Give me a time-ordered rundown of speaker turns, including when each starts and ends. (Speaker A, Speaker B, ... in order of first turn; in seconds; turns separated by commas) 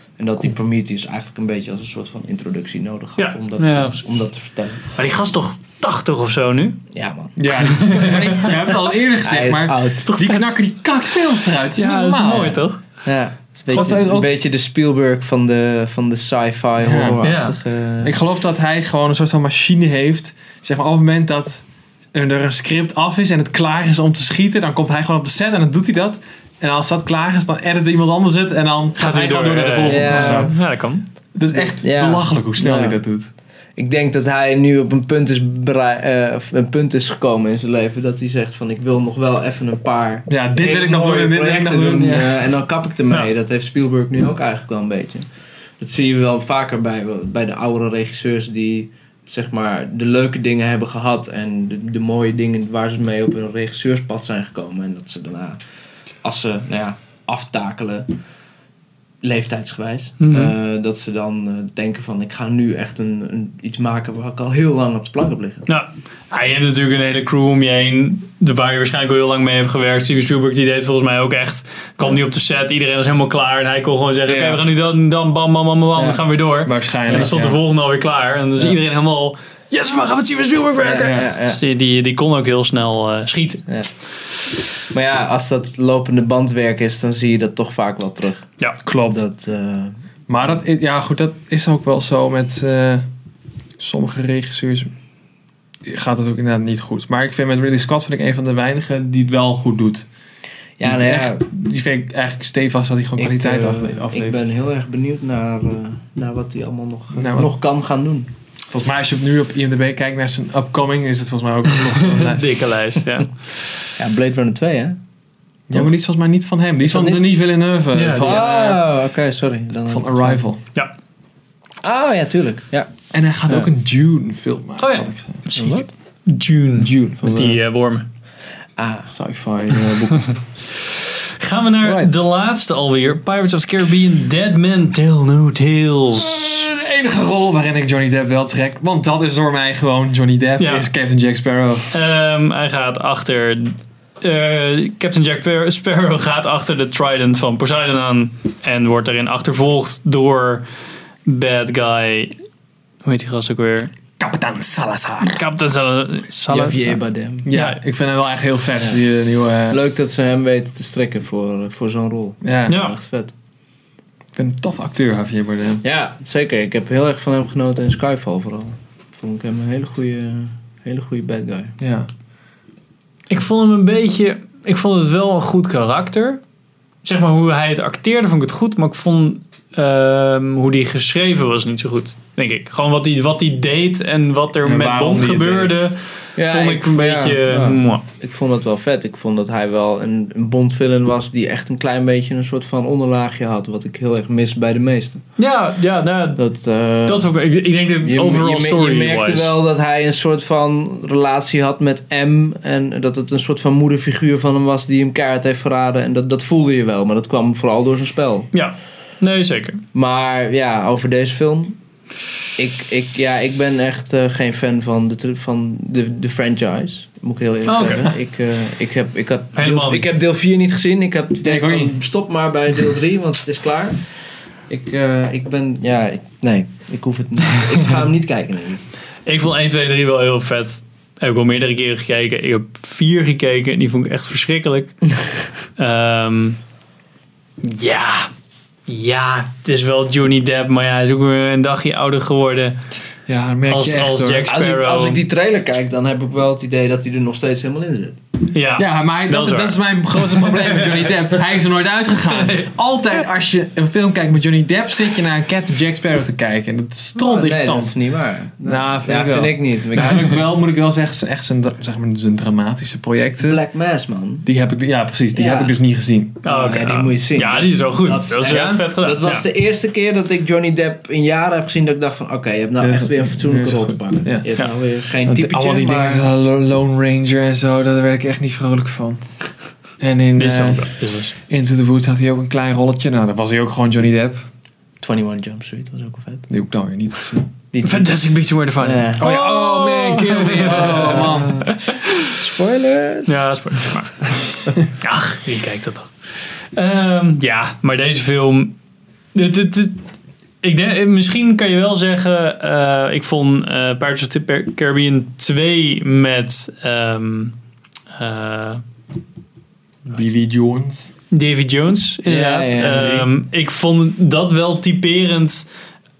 Speaker A: 0.2-4.9, Speaker B: 3.2-4.0, Speaker B: 5.0-6.8, Speaker A: 6.9-8.2, Speaker C: 7.4-12.6, Speaker B: 7.5-8.5, Speaker A: 9.2-10.1, Speaker B: 10.0-10.6, Speaker B: 11.8-12.8, Speaker A: 13.1-18.1, Speaker C: 13.7-14.3, Speaker C: 16.8-17.2, Speaker B: 17.2-17.6, Speaker C: 18.0-21.6, Speaker C: 22.1-30.5, Speaker B: 29.0-31.1, Speaker A: 29.8-30.6, Speaker C: 31.4-33.3, Speaker A: 31.5-33.0, Speaker A: 33.8-45.3, Speaker C: 40.3-42.5, Speaker A: 45.8-55.6, Speaker A: 56.2-58.1, Speaker A: 59.2-65.7, Speaker B: 60.2-60.5, Speaker B: 65.7-83.7, Speaker C: 74.3-74.6, Speaker C: 76.6-77.6, Speaker A: 80.8-81.6, Speaker C: 81.0-81.3, Speaker A: 84.9-90.0, Speaker C: 88.9-89.2, Speaker C: 90.3-93.1, Speaker C: 93.8-94.9, Speaker C: 95.8-100.1, Speaker A: 100.8-101.4, Speaker C: 100.8-104.4, Speaker A: 103.2-108.3, Speaker C: 107.1-107.5, Speaker C: 108.7-112.5, Speaker B: 111.9-113.6, Speaker A: 114.0-115.0, Speaker C: 115.7-118.8, Speaker A: 116.8-117.2, Speaker B: 117.9-118.4, Speaker A: 118.2-120.4, Speaker C: 119.9-120.6, Speaker A: 121.8-122.9, Speaker C: 123.1-125.8, Speaker B: 124.8-128.1, Speaker A: 125.5-125.8, Speaker C: 126.8-127.6, Speaker A: 128.8-129.1, Speaker C: 129.1-130.4, Speaker B: 131.4-136.6, Speaker C: 131.8-132.2, Speaker C: 136.2-141.9, Speaker B: 140.6-140.9, Speaker B: 141.9-150.7, Speaker B: 151.3-152.3, Speaker B: 153.0-153.9, Speaker C: 154.2-155.4, Speaker B: 155.2-157.8, Speaker A: 156.5-157.5, Speaker C: 157.4-159.8, Speaker A: 159.7-163.3, Speaker C: 162.4-162.8, Speaker B: 162.7-163.0, Speaker C: 164.3-165.8, Speaker A: 165.8-171.8, Speaker C: 171.8-172.1, Speaker B: 173.3-176.4, Speaker B: 177.0-188.0, Speaker C: 184.6-185.8, Speaker A: 186.4-195.2, Speaker B: 195.4-196.4, Speaker A: 196.4-197.3, Speaker B: 197.1-199.6, Speaker A: 198.0-208.5, Speaker B: 208.5-209.8, Speaker A: 209.9-211.8, Speaker A: 212.6-228.8, Speaker B: 217.7-218.1, Speaker B: 219.6-220.1, Speaker C: 221.4-221.9, Speaker B: 229.3-235.0, Speaker B: 235.8-236.6, Speaker B: 237.6-238.3, Speaker B: 238.9-242.8, Speaker C: 243.3-244.5, Speaker B: 243.7-245.2, Speaker A: 244.5-248.2, Speaker B: 248.5-251.2, Speaker C: 248.8-258.0, Speaker B: 252.3-252.7, Speaker A: 257.2-260.4, Speaker C: 258.6-263.6, Speaker A: 263.4-264.5, Speaker C: 264.4-266.4, Speaker A: 265.3-265.8, Speaker B: 266.4-269.5, Speaker A: 266.4-276.3, Speaker C: 268.4-268.9, Speaker C: 272.8-274.5, Speaker C: 275.2-279.2, Speaker C: 280.0-284.4, Speaker B: 280.4-281.4, Speaker A: 285.0-286.5, Speaker C: 286.5-287.5, Speaker A: 287.7-288.1, Speaker B: 287.8-292.3, Speaker A: 288.8-289.3, Speaker C: 289.2-291.7, Speaker A: 290.6-293.5, Speaker B: 293.3-298.8, Speaker B: 299.3-300.0, Speaker B: 300.6-307.6, Speaker B: 308.1-308.8, Speaker C: 310.1-311.1, Speaker B: 311.3-315.7, Speaker A: 312.3-313.2